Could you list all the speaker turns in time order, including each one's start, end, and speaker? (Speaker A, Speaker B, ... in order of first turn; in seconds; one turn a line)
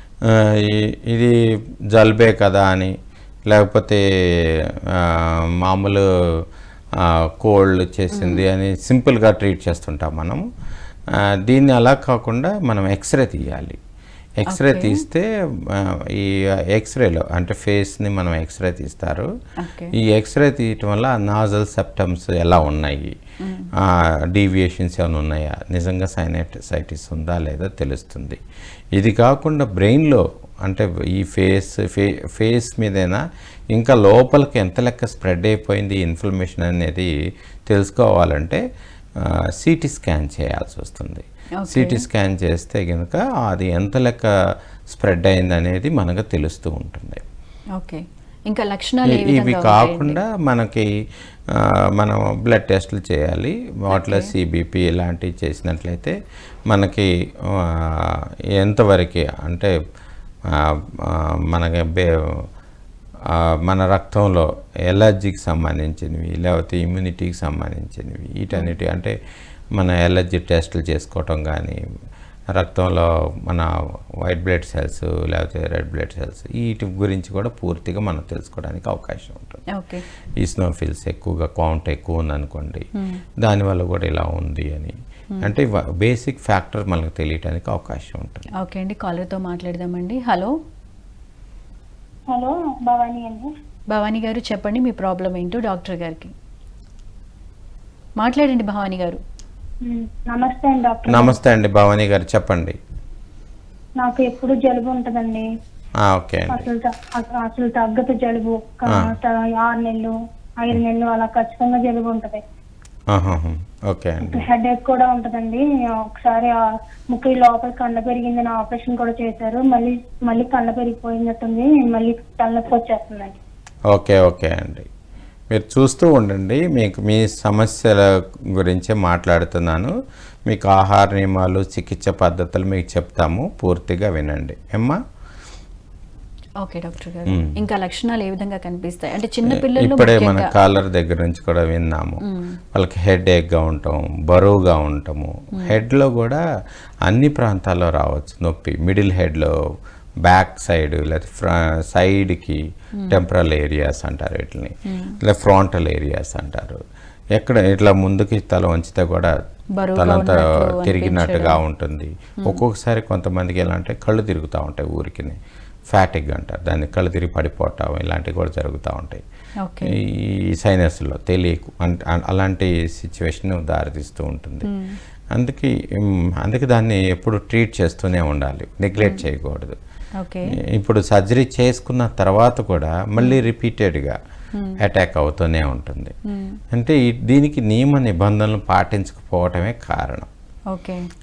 Speaker A: 0.6-1.3
Speaker A: 1.9-2.9
Speaker A: 3.5-4.0
Speaker A: 4.9-6.0
Speaker A: 7.0-10.4
Speaker B: 8.1-8.4
Speaker A: 11.2-13.8
Speaker A: 14.5-19.3
Speaker B: 14.5-15.0
Speaker B: 19.6-19.9
Speaker A: 20.0-23.2
Speaker B: 23.4-23.7
Speaker A: 23.8-28.4
Speaker A: 29.0-37.1
Speaker A: 37.7-38.6
Speaker A: 39.2-44.3
Speaker B: 41.6-42.0
Speaker A: 44.9-47.2
Speaker B: 47.8-50.2
Speaker A: 49.1-50.9
Speaker A: 51.5-56.1
Speaker B: 53.9-54.3
Speaker A: 56.7-59.7
Speaker A: 60.5-62.4
Speaker A: 63.3-69.1
Speaker A: 69.8-71.8
Speaker A: 72.5-73.7
Speaker A: 74.2-79.6
Speaker B: 79.7-80.0
Speaker A: 80.4-82.9
Speaker A: 83.4-88.5
Speaker B: 88.6-90.5
Speaker C: 92.3-93.5
Speaker B: 93.9-96.3
Speaker B: 98.2-99.2
Speaker C: 99.8-101.4
Speaker A: 101.1-102.8
Speaker C: 104.0-105.5
Speaker A: 106.1-106.7
Speaker C: 106.5-112.4
Speaker A: 113.1-114.5
Speaker C: 114.2-116.5
Speaker C: 117.1-123.4
Speaker A: 123.9-124.9
Speaker A: 125.5-129.9
Speaker A: 130.5-135.0
Speaker B: 136.6-140.5
Speaker A: 137.3-137.6
Speaker A: 139.5-142.2
Speaker B: 142.3-142.6
Speaker A: 142.7-146.4
Speaker A: 147.1-149.6
Speaker A: 150.2-156.8
Speaker B: 154.9-155.2
Speaker A: 157.4-159.3
Speaker B: 159.8-161.6
Speaker A: 160.0-165.4
Speaker A: 165.9-169.2
Speaker B: 169.6-169.9
Speaker A: 169.8-174.7
Speaker B: 174.7-175.0
Speaker A: 175.3-179.8
Speaker B: 180.2-180.6
Speaker A: 180.7-184.2
Speaker B: 184.6-184.8
Speaker A: 184.8-186.1
Speaker B: 186.3-186.6
Speaker A: 186.7-190.3
Speaker B: 190.7-191.0